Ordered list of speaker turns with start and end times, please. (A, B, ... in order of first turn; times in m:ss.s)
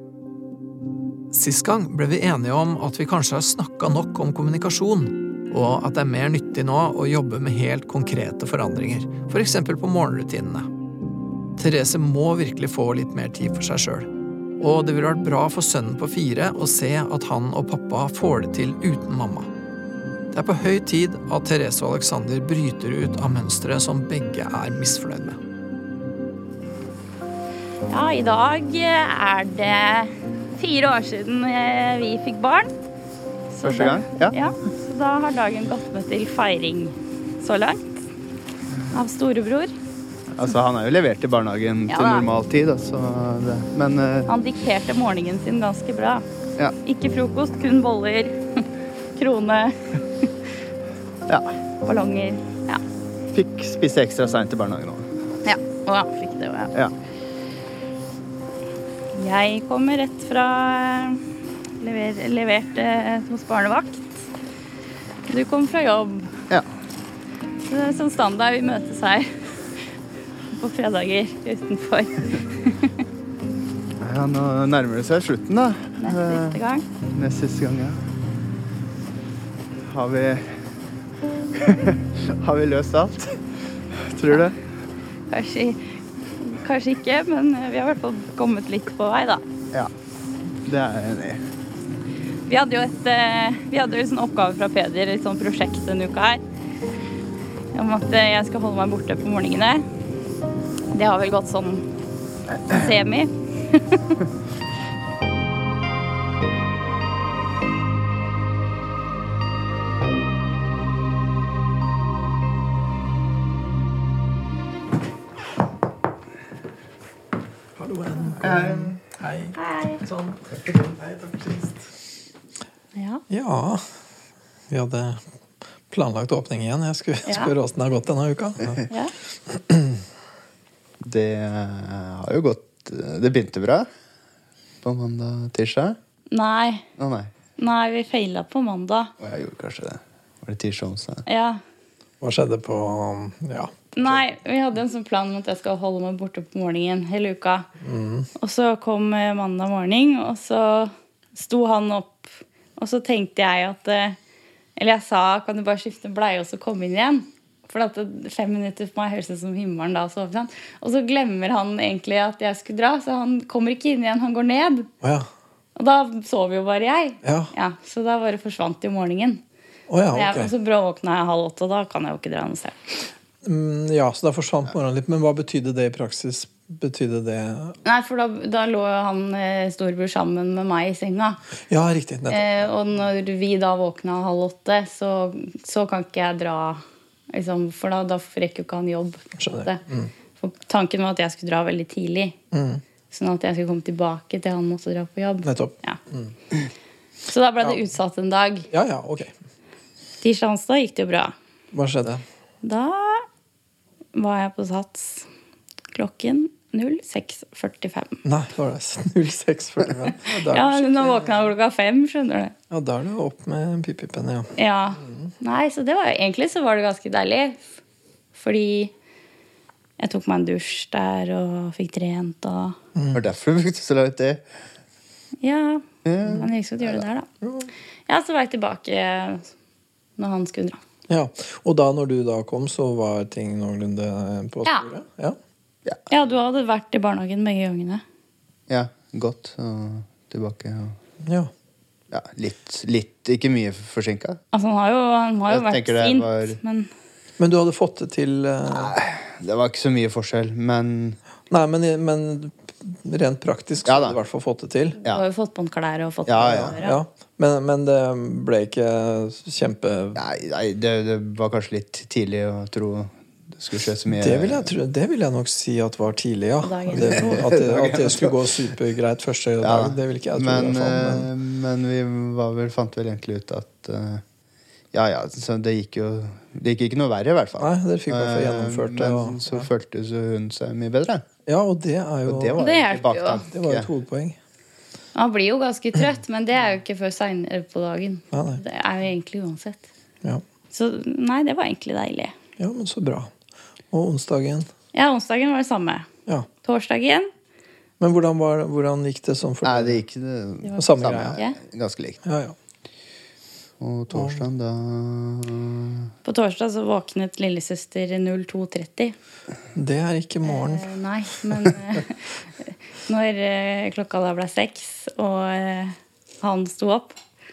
0:01.3-0:10.7 A
0:11.6-0:19.5 A
0:20.3-0:25.4 A
0:27.9-0:32.7 B
0:33.5-0:38.0 B
0:33.6-0:34.3 C
0:38.9-0:39.7 B
0:40.3-0:44.3 C
0:41.9-0:42.3 B
0:44.3-0:46.2 B
0:46.8-0:50.3 B
0:51.3-0:51.5 C
0:51.8-0:52.8 B
0:53.3-0:55.1 C
0:55.4-0:56.7 B
0:59.1-1:01.2 B
1:01.8-1:04.2 B
1:05.2-1:06.3 B
1:07.6-1:09.8 B
1:10.5-1:13.0 B
1:14.0-1:16.6 C
1:16.0-1:16.8 B
1:17.1-1:18.0 C
1:19.8-1:20.7 C
1:21.5-1:23.4 C
1:23.9-1:24.6 C
1:25.3-1:29.4 B
1:30.6-1:31.4 C
1:32.5-1:36.4 B
1:37.7-1:39.8 B
1:40.9-1:41.9 B
1:42.6-1:44.0 B
1:57.8-2:01.9 A
1:58.4-1:59.0 C
1:59.5-2:00.0 B
2:02.9-2:03.2 B
2:03.3-2:03.8 A
2:04.7-2:05.2 A
2:05.9-2:08.8 A
2:07.2-2:07.5 B
2:09.5-2:10.0 A
2:11.0-2:13.9 C
2:14.8-2:16.0 C
2:16.3-2:16.9 B
2:17.0-2:17.3 C
2:17.6-2:19.1 B
2:19.2-2:21.2 C
2:21.2-2:21.6 B
2:22.2-2:23.9 A
2:23.9-2:27.7 B
2:27.8-2:28.3 A
2:28.4-2:34.2 B
2:34.8-2:44.9 B
2:45.0-2:45.3 A
2:45.8-2:49.4 B
2:47.2-2:47.5 A
2:49.9-2:50.5 A
2:50.1-2:53.0 B
2:53.4-2:57.8 A
2:57.8-3:01.4 B
3:01.7-3:02.5 A
3:02.3-3:09.8 B
3:09.4-3:10.1 A
3:10.4-3:12.4 B
3:12.5-3:12.8 A
3:13.1-3:16.0 B
3:15.4-3:16.3 A
3:17.3-3:18.7 B
3:18.7-3:19.3 A
3:20.2-3:21.3 B
3:21.7-3:22.2 A
3:22.6-3:23.2 B
3:24.1-3:25.3 B
3:25.9-3:28.2 B
3:28.2-3:31.4 A
3:30.2-3:32.5 B
3:32.7-3:35.3 A
3:34.6-3:37.6 B
3:38.3-3:38.9 B
3:40.0-3:42.8 B
3:42.9-3:43.2 A
3:43.1-3:44.4 C
3:45.4-3:47.3 B
3:46.0-3:47.0 C
3:47.4-3:47.7 A
3:48.1-3:49.5 B
3:50.2-3:50.8 B
3:51.1-3:55.4 A
3:56.1-3:58.0 B
3:58.7-4:01.0 C
4:01.2-4:01.5 A
4:02.1-4:04.4 C
4:04.5-4:06.9 B
4:05.5-4:06.6 C
4:07.4-4:08.9 A
4:08.7-4:11.2 C
4:11.5-4:15.0 A
4:13.8-4:14.2 C
4:15.0-4:17.0 B
4:16.3-4:16.8 C
4:16.7-4:20.2 A
4:20.2-4:24.7 C
4:24.2-4:31.3 A
4:26.6-4:27.5 B
4:27.2-4:28.4 C
4:29.6-4:34.2 C
4:34.9-4:41.2 C
4:37.6-4:39.7 A
4:41.4-4:42.8 A
4:42.2-4:43.9 C
4:42.6-4:43.4 B
4:43.5-4:44.4 A
4:45.1-4:49.8 B
4:48.3-4:48.6 A
4:50.7-4:52.3 B
4:52.6-4:53.3 A
4:53.9-4:54.7 A
4:54.9-4:56.1 B
4:56.6-4:57.3 B
4:58.0-5:00.0 A
4:59.6-5:02.2 C
5:00.8-5:01.4 A
5:02.2-5:02.6 A
5:03.8-5:06.1 C
5:04.1-5:04.4 A
5:06.2-5:09.1 B
5:09.7-5:10.9 A
5:10.4-5:17.2 B